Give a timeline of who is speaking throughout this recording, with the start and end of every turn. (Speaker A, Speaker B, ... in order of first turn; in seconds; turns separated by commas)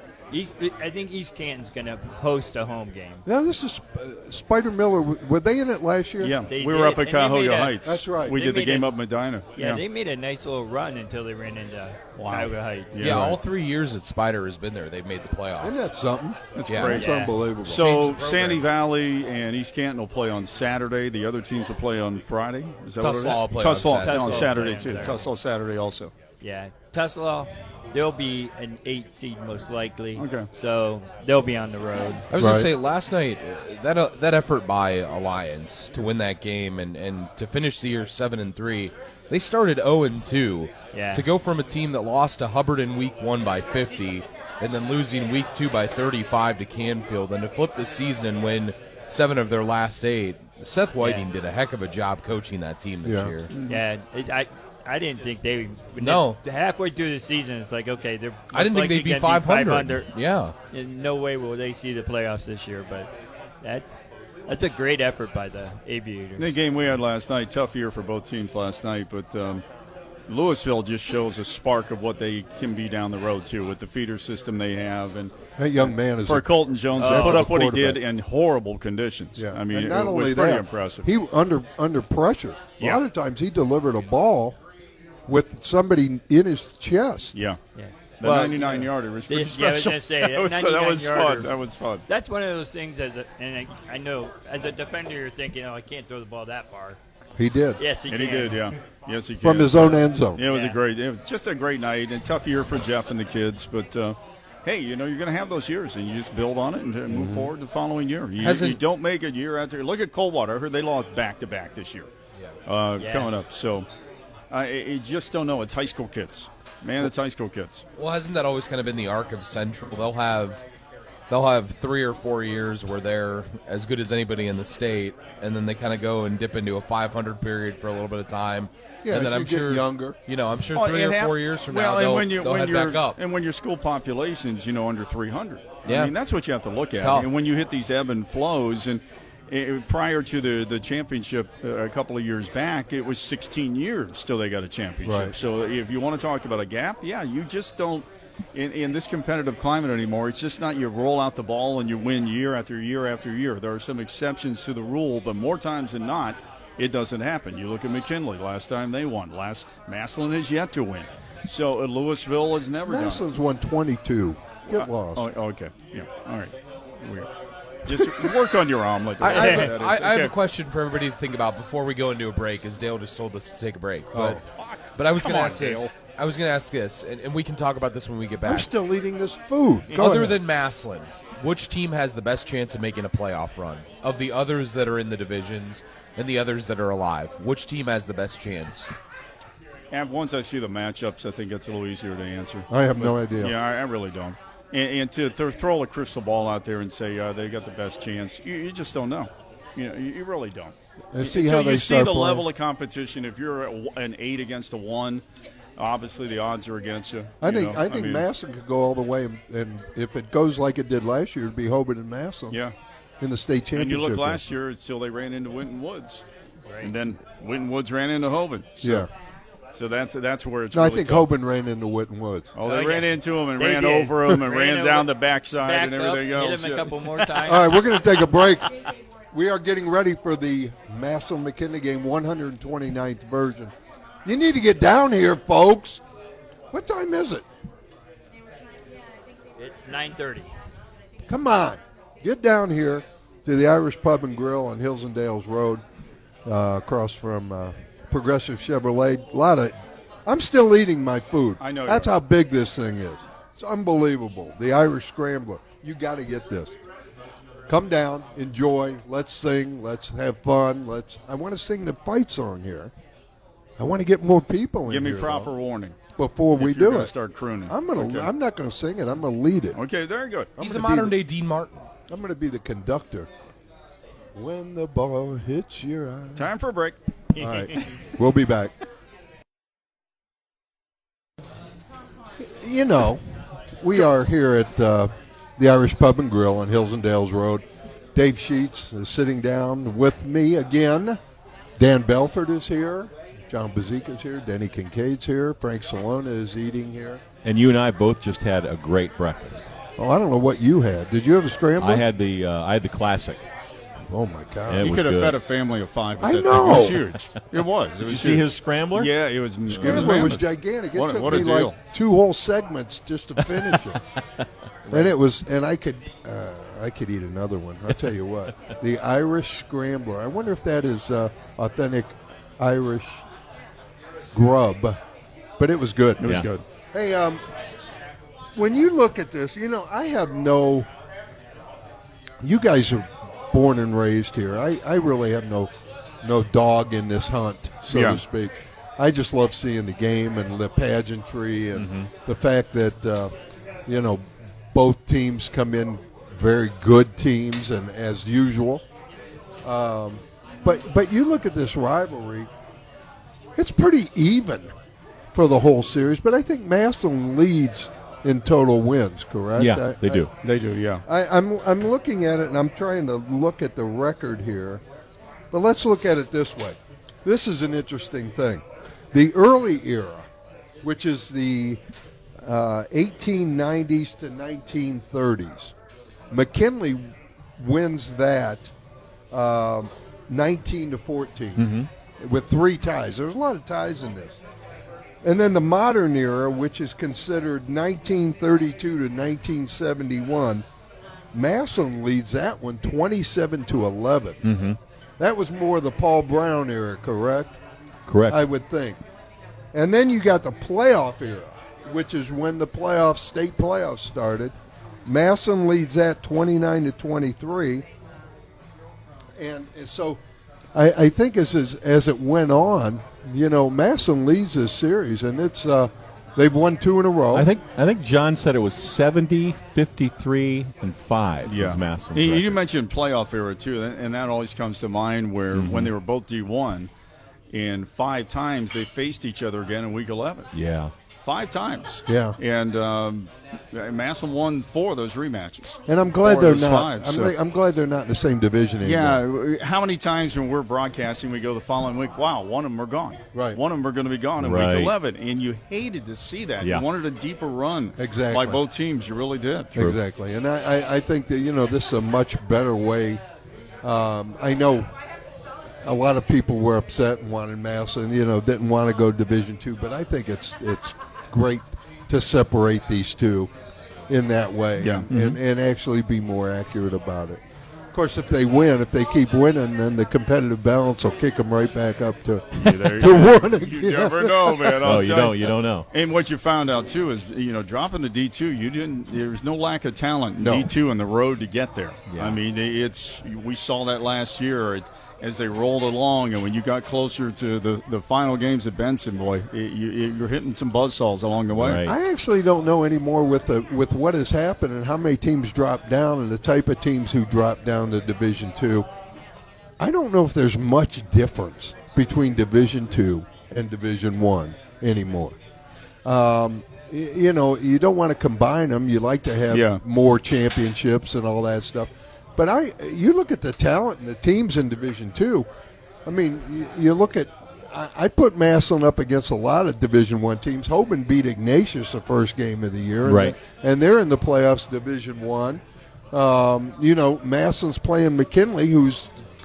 Speaker A: 0.3-3.2, Speaker B: 3.2-6.4, Speaker C: 6.2-9.8, Speaker A: 6.5-8.9, Speaker B: 7.8-8.4, Speaker A: 9.6-13.2, Speaker C: 12.2-13.4, Speaker D: 13.0-15.9, Speaker B: 15.6-17.9, Speaker C: 16.5-26.1, Speaker D: 16.7-17.0, Speaker A: 16.9-17.3, Speaker D: 17.6-18.6, Speaker D: 23.0-24.8, Speaker A: 23.9-25.3, Speaker A: 26.4-32.2, Speaker C: 30.1-30.5, Speaker D: 32.3-53.5, Speaker B: 32.4-32.7, Speaker A: 40.9-41.2, Speaker A: 51.0-51.2, Speaker B: 53.0-53.3, Speaker C: 53.5-53.8, Speaker A: 53.6-60.1, Speaker D: 56.0-56.4, Speaker D: 58.5-60.5, Speaker A: 60.7-63.1, Speaker A: 63.6-66.5, Speaker C: 66.4-69.6, Speaker C: 70.3-81.1, Speaker B: 75.6-78.0, Speaker A: 77.0-77.5, Speaker B: 79.4-84.6, Speaker B: 85.3-87.4, Speaker A: 87.8-91.5, Speaker C: 88.2-92.0, Speaker A: 92.1-97.0, Speaker B: 97.4-97.8, Speaker A: 97.8-98.7, Speaker C: 98.1-112.1, Speaker B: 99.4-100.4, Speaker A: 100.4-100.8, Speaker B: 107.1-107.5, Speaker D: 108.4-108.8, Speaker C: 112.7-113.9, Speaker A: 113.0-113.3, Speaker C: 114.5-117.8, Speaker D: 118.0-120.6, Speaker D: 121.3-133.2, Speaker B: 129.0-130.2, Speaker C: 130.8-163.2, Speaker D: 135.9-136.1, Speaker D: 136.9-137.3, Speaker B: 145.0-145.3, Speaker B: 162.8-165.3, Speaker C: 164.7-167.3, Speaker C: 167.8-170.3, Speaker D: 169.2-174.4, Speaker A: 169.3-169.7, Speaker B: 174.1-174.4, Speaker C: 174.6-175.9, Speaker D: 175.0-178.7, Speaker B: 178.4-180.4, Speaker D: 179.9-188.9, Speaker C: 189.9-205.2, Speaker B: 192.7-193.5, Speaker B: 201.1-202.5, Speaker C: 205.8-208.2, Speaker B: 207.4-212.6, Speaker B: 213.2-214.4, Speaker C: 213.7-216.2, Speaker C: 216.8-219.1, Speaker B: 218.8-219.1, Speaker C: 219.7-221.3, Speaker B: 220.7-222.5, Speaker C: 222.6-227.2, Speaker A: 222.7-225.1, Speaker A: 225.6-227.8, Speaker B: 227.4-228.7, Speaker B: 229.3-233.7, Speaker B: 234.2-236.0, Speaker B: 236.7-237.5, Speaker A: 239.6-240.5, Speaker B: 241.3-245.8, Speaker B: 246.5-249.7, Speaker B: 250.2-256.8, Speaker C: 251.6-252.1, Speaker B: 257.7-262.9, Speaker B: 263.8-265.5, Speaker C: 264.9-266.0, Speaker B: 266.2-267.1, Speaker C: 266.5-268.3, Speaker B: 267.7-269.8, Speaker C: 269.8-270.5, Speaker B: 270.6-271.2, Speaker D: 270.6-271.9, Speaker B: 272.1-273.3, Speaker B: 274.3-276.5, Speaker C: 276.4-277.0, Speaker B: 277.3-278.7, Speaker B: 282.4-283.2, Speaker B: 283.8-291.2, Speaker B: 291.8-297.2, Speaker E: 297.4-299.7, Speaker B: 300.0-302.0, Speaker E: 301.8-303.5, Speaker B: 304.1-304.9, Speaker E: 304.7-305.4, Speaker C: 304.8-310.4, Speaker B: 306.2-307.0, Speaker E: 306.7-307.0, Speaker E: 308.0-309.1, Speaker E: 309.7-310.3, Speaker B: 309.7-314.0, Speaker C: 310.9-311.8, Speaker E: 314.9-315.1, Speaker B: 314.9-323.2, Speaker B: 324.3-325.0, Speaker B: 325.6-326.3, Speaker C: 326.2-326.6, Speaker B: 326.9-327.4, Speaker B: 328.6-330.9, Speaker B: 332.4-335.7, Speaker B: 336.2-343.3, Speaker C: 337.9-338.2, Speaker E: 341.8-342.1, Speaker B: 343.9-348.8, Speaker B: 349.6-352.5, Speaker B: 353.6-354.7, Speaker B: 355.3-360.2, Speaker E: 359.6-360.3, Speaker C: 360.4-361.0, Speaker B: 361.1-364.8, Speaker B: 365.5-370.3, Speaker B: 370.8-371.8, Speaker B: 372.4-375.8, Speaker B: 376.3-378.7, Speaker B: 379.3-384.4, Speaker E: 381.6-381.9, Speaker B: 385.2-390.7, Speaker B: 391.3-394.4, Speaker E: 394.4-394.8, Speaker B: 395.2-397.6, Speaker E: 398.1-398.4, Speaker B: 398.3-399.0, Speaker B: 399.7-407.9, Speaker B: 409.4-410.2, Speaker B: 410.7-417.5, Speaker E: 417.3-422.6, Speaker C: 421.4-426.9, Speaker E: 425.5-425.9, Speaker C: 427.5-430.5, Speaker E: 430.5-430.9, Speaker C: 431.1-437.3, Speaker B: 432.1-432.4, Speaker B: 435.9-439.2, Speaker C: 438.8-449.8, Speaker B: 443.3-443.6, Speaker E: 444.4-444.9, Speaker B: 448.0-448.6, Speaker B: 449.8-453.2, Speaker B: 453.8-454.9, Speaker B: 455.8-463.5, Speaker B: 464.1-467.4, Speaker C: 464.8-465.1, Speaker E: 465.1-465.4, Speaker B: 467.9-474.8, Speaker C: 472.6-491.8, Speaker E: 474.8-475.9, Speaker B: 480.4-480.7, Speaker E: 482.1-482.4, Speaker E: 491.5-491.9, Speaker B: 491.8-498.9, Speaker B: 499.8-505.4, Speaker B: 506.0-515.5, Speaker C: 509.5-509.8, Speaker B: 516.0-529.1, Speaker E: 523.0-523.4